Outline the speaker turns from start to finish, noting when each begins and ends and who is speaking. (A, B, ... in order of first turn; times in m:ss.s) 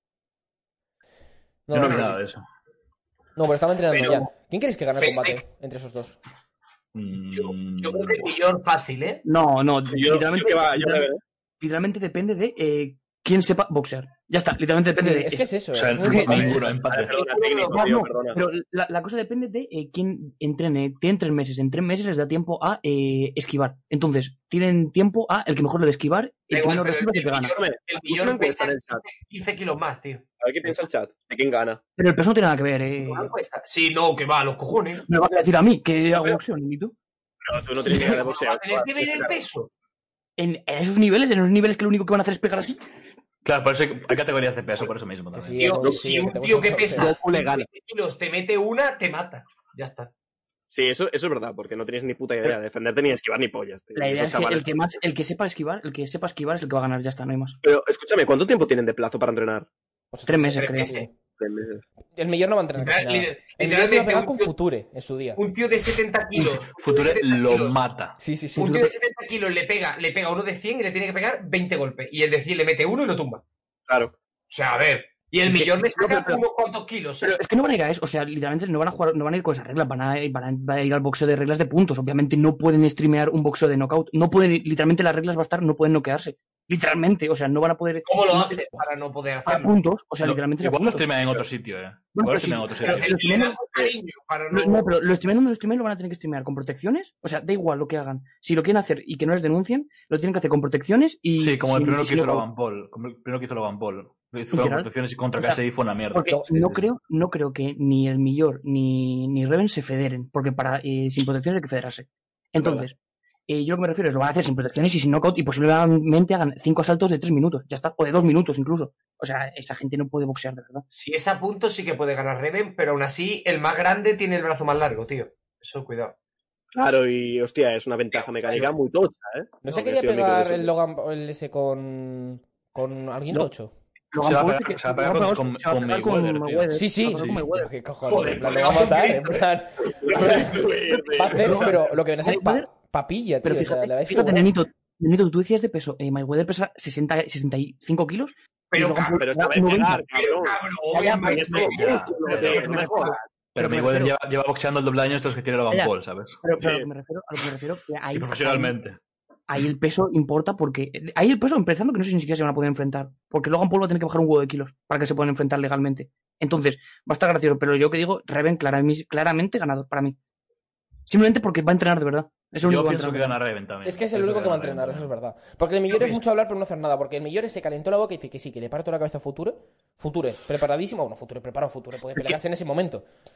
0:01.7-0:02.2 A
0:01.7-0:02.4 B
0:03.4-0:06.2 A
0:05.0-0:05.4 C
0:06.9-0:08.3 B
0:07.3-0:09.2 C
0:09.2-0:11.1 D
0:09.9-0:11.2 E
0:11.6-0:16.8 D
0:15.0-0:16.7 A
0:15.7-0:17.1 B
0:16.8-0:18.4 E
0:17.1-0:17.9 C
0:17.7-0:27.6 D
0:26.5-0:30.3 C
0:27.6-0:29.0 E
0:30.4-0:31.8 E
0:32.0-0:33.3 D
0:33.0-0:35.1 C
0:35.1-0:37.0 D
0:37.4-0:39.4 E
0:37.8-0:39.7 C
0:40.4-0:42.8 D
0:43.4-0:45.8 B
0:45.3-0:47.1 A
0:45.6-0:50.1 C
0:47.0-0:47.7 E
0:50.7-0:54.7 E
0:53.9-0:57.6 D
0:57.6-0:59.7 E
1:00.1-1:01.1 A
1:00.3-1:01.1 D
1:00.6-1:00.9 C
1:01.4-1:01.8 E
1:02.2-1:05.4 A
1:02.8-1:04.5 C
1:05.4-1:07.8 C
1:06.4-1:08.2 B
1:08.2-1:08.8 A
1:08.6-1:13.4 C
1:08.6-1:08.9 D
1:13.9-1:14.1 E
1:14.5-1:17.4 C
1:15.4-1:16.4 D
1:17.2-1:28.8 D
1:28.1-1:29.7 C
1:29.5-1:31.4 D
1:30.2-1:33.2 B
1:32.1-1:33.9 D
1:32.8-1:34.9 C
1:34.5-1:42.5 D
1:41.4-1:46.8 B
1:44.5-1:45.6 D
1:46.1-1:53.0 D
1:52.6-1:52.8 E
1:53.5-2:00.8 D
2:00.9-2:06.2 C
2:06.7-2:10.7 E
2:08.2-2:08.7 C
2:09.6-2:13.7 A
2:14.1-2:17.7 D
2:14.2-2:17.4 B
2:16.7-2:20.6 A
2:18.0-2:19.5 C
2:19.8-2:21.8 E
2:20.1-2:20.6 C
2:21.2-2:24.5 A
2:21.4-2:22.7 D
2:23.4-2:30.1 D
2:28.7-2:29.2 C
2:29.1-2:33.2 E
2:30.1-2:33.2 C
2:30.9-2:34.2 D
2:31.7-2:32.7 B
2:33.6-2:36.4 B
2:36.4-2:38.8 D
2:36.6-2:36.9 E
2:38.1-2:39.0 B
2:39.5-2:50.2 D
2:51.1-2:53.4 D
2:52.6-2:55.1 B
2:53.8-3:03.0 A
2:55.9-2:56.2 C